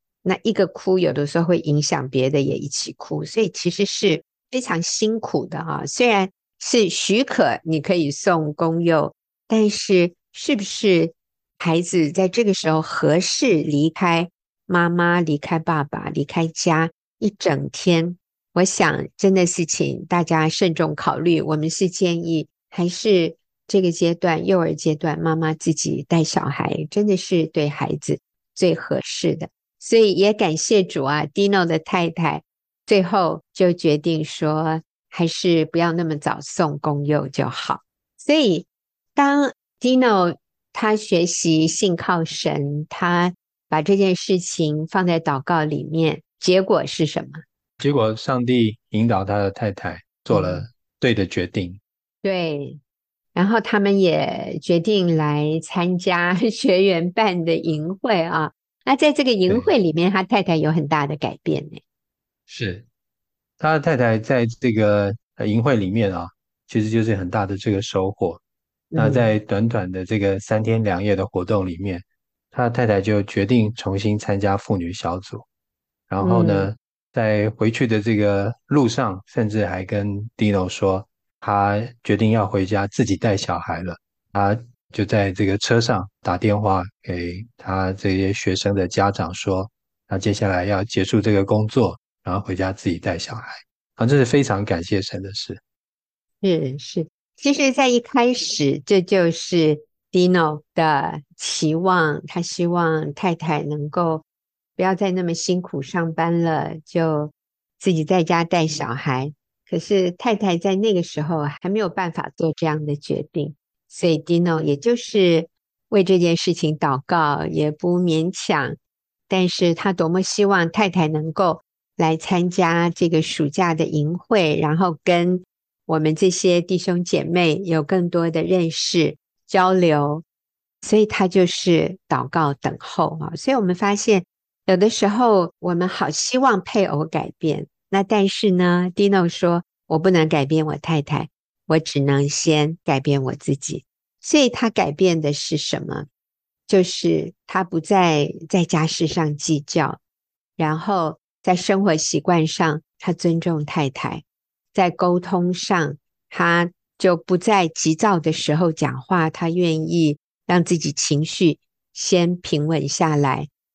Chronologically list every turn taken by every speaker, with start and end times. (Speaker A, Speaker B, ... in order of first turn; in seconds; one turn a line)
Speaker A: 0.2-47.4
Speaker B: 47.8-51.8
Speaker A: 50.3-50.7
Speaker A: 52.2-52.8
Speaker A: 53.4-61.8
Speaker B: 62.5-62.8
Speaker B: 63.6-68.4
Speaker A: 68.9-69.3
Speaker B: 69.0-75.5
Speaker B: 76.1-95.6
Speaker A: 76.2-76.7
Speaker A: 96.4-104.2
Speaker A: 104.8-118.8
Speaker A: 119.3-130.2
Speaker A: 130.8-146.1
Speaker A: 146.7-150.0
Speaker A: 150.6-163.5